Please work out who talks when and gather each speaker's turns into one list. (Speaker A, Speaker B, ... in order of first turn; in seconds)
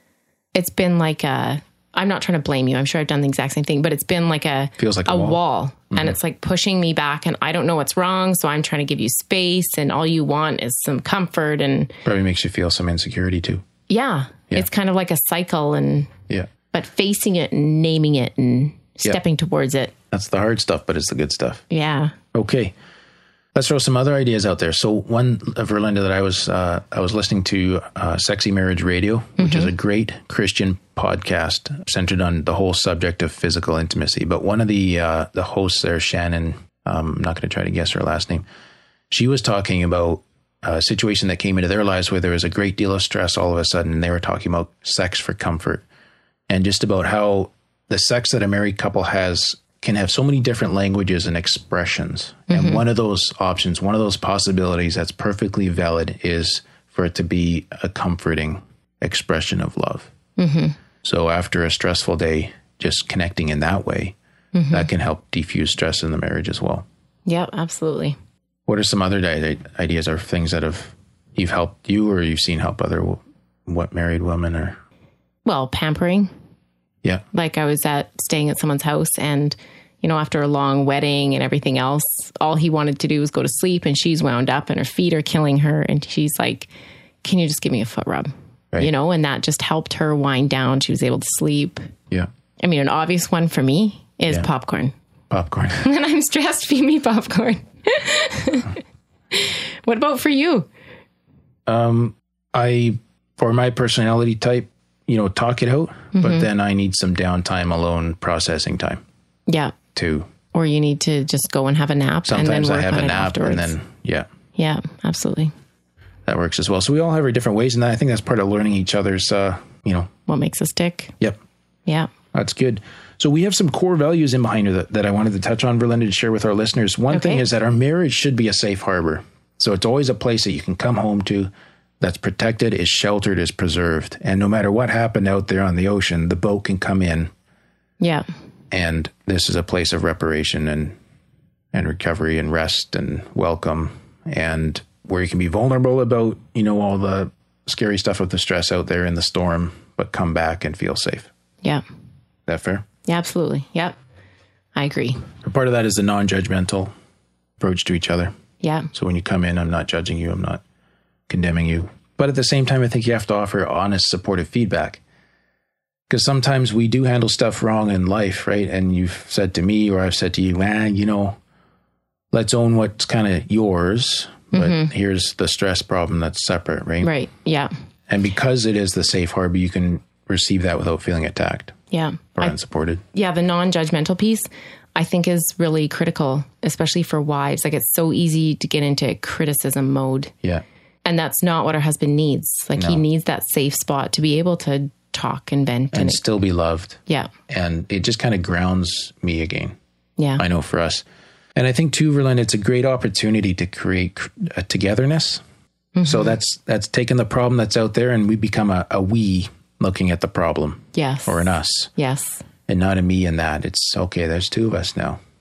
Speaker A: 0.5-11.9, 13.9-16.1, 16.7-19.9, 21.7-22.1, 29.4-29.7, 52.5-52.8, 60.4-60.8, 64.5-64.9, 67.2-68.2, 75.4-76.3, 77.3-86.7, 87.2-91.8, 92.6-94.9, 95.8-98.8, 99.3-100.7, 106.1-106.5, 109.5-109.7, 110.5-113.7, 114.5-115.5, 120.3-121.1, 127.1-127.4, 138.0-138.2, 153.1-153.9, 154.7-155.2, 158.6-158.9, 174.5-174.9, 177.0-177.7, 181.9-182.5, 183.1-190.3, 191.0-196.2, 200.2-200.4, 205.9-206.3, 210.9-212.4
Speaker B: 4.8-5.4, 12.0-13.6, 20.1-21.6, 22.3-22.7, 23.5-38.5, 39.1-45.8, 46.5-60.1, 61.0-64.2, 64.7-66.8, 68.7-74.8, 95.3-95.8, 101.7-109.0, 109.9-110.3, 112.2-114.3, 116.2-120.1, 122.3-137.3, 138.7-140.9, 141.7-151.3, 152.5-152.8, 155.4-156.9, 157.6-158.3, 158.9-160.6, 161.3-165.0, 166.1-171.4, 172.3-177.1, 178.1-181.7, 182.4-183.0, 192.8-193.0, 195.9-199.7, 200.4-201.0, 201.6-205.4, 206.0-211.9, 212.7-215.2